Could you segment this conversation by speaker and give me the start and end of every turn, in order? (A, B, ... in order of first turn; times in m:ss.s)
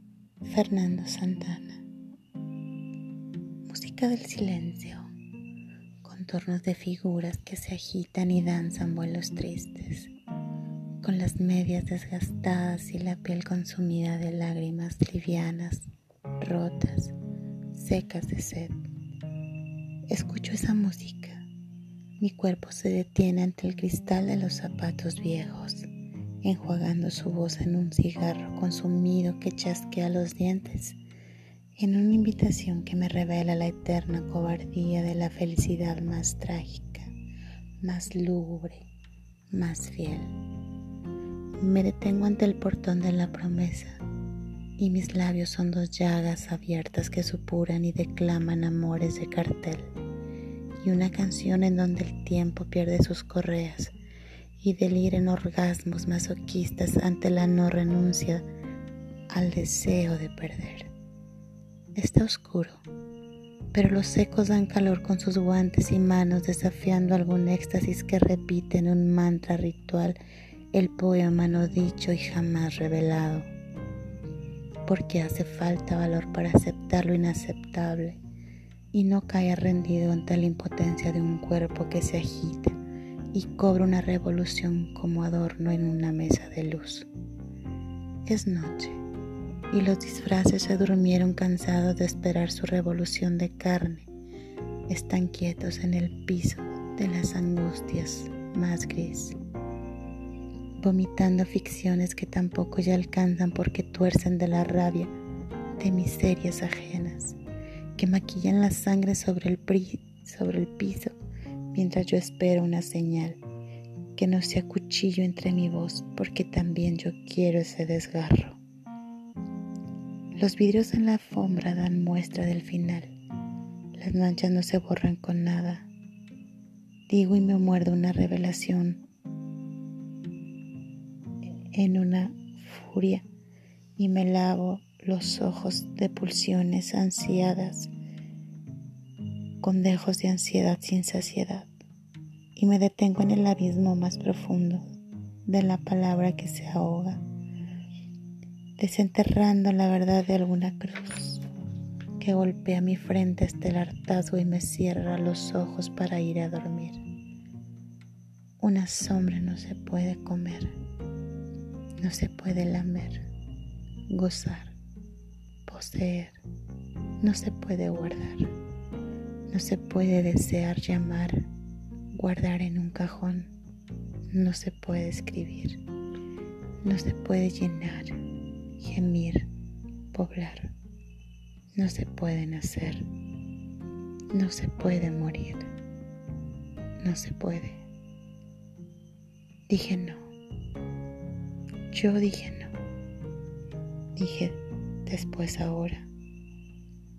0:00.4-0:01.8 A
0:03.7-0:05.1 A
0:06.0-0:10.1 A
0:11.0-0:15.9 A
0:16.4-0:17.1 A
0:17.7-0:18.8 A
0:20.1-0:21.4 A
0:22.2-0:25.9 A
0:26.4-0:31.0 A
0:31.8-0:37.1 A
0:37.8-0:38.8 A
0:39.5-0:40.4 A
0:41.6-0:44.0 A
0:44.8-0:49.9 A
0:50.8-0:53.9 A
0:54.6-0:58.4 A
0:59.3-1:00.9 A
1:01.9-1:02.8 A
1:03.7-1:10.2 A
1:10.7-1:13.5 A
1:14.8-1:18.2 A
1:18.9-1:22.8 A
1:23.3-1:27.1 A
1:28.2-1:29.0 A
1:29.7-1:34.1 A
1:34.9-1:39.4 A
1:40.8-1:45.1 A
1:45.8-1:47.4 A
1:48.0-1:51.2 A
1:51.7-1:53.4 A
1:54.1-1:58.6 A
2:00.3-2:03.1 A
2:03.9-2:05.9 A
2:07.1-2:09.0 A
2:11.7-2:13.2 A
2:14.0-2:17.9 A
2:19.6-2:21.7 A
2:22.5-2:24.9 A
2:25.4-2:27.2 A
2:28.8-2:31.4 A
2:32.2-2:37.0 A
2:38.6-2:40.7 A
2:42.0-2:43.2 A
2:44.1-2:44.8 A
2:45.6-2:46.4 A
2:47.2-2:48.5 A
2:49.5-2:51.5 A
2:52.1-2:53.5 A
2:54.3-2:55.8 A
2:56.8-2:58.2 A
2:58.8-2:59.5 A
3:00.1-3:00.7 A
3:01.7-3:03.0 A
3:04.3-3:05.7 A
3:07.0-3:07.8 A
3:09.7-3:10.2 A
3:11.9-3:12.7 A
3:14.2-3:16.1 A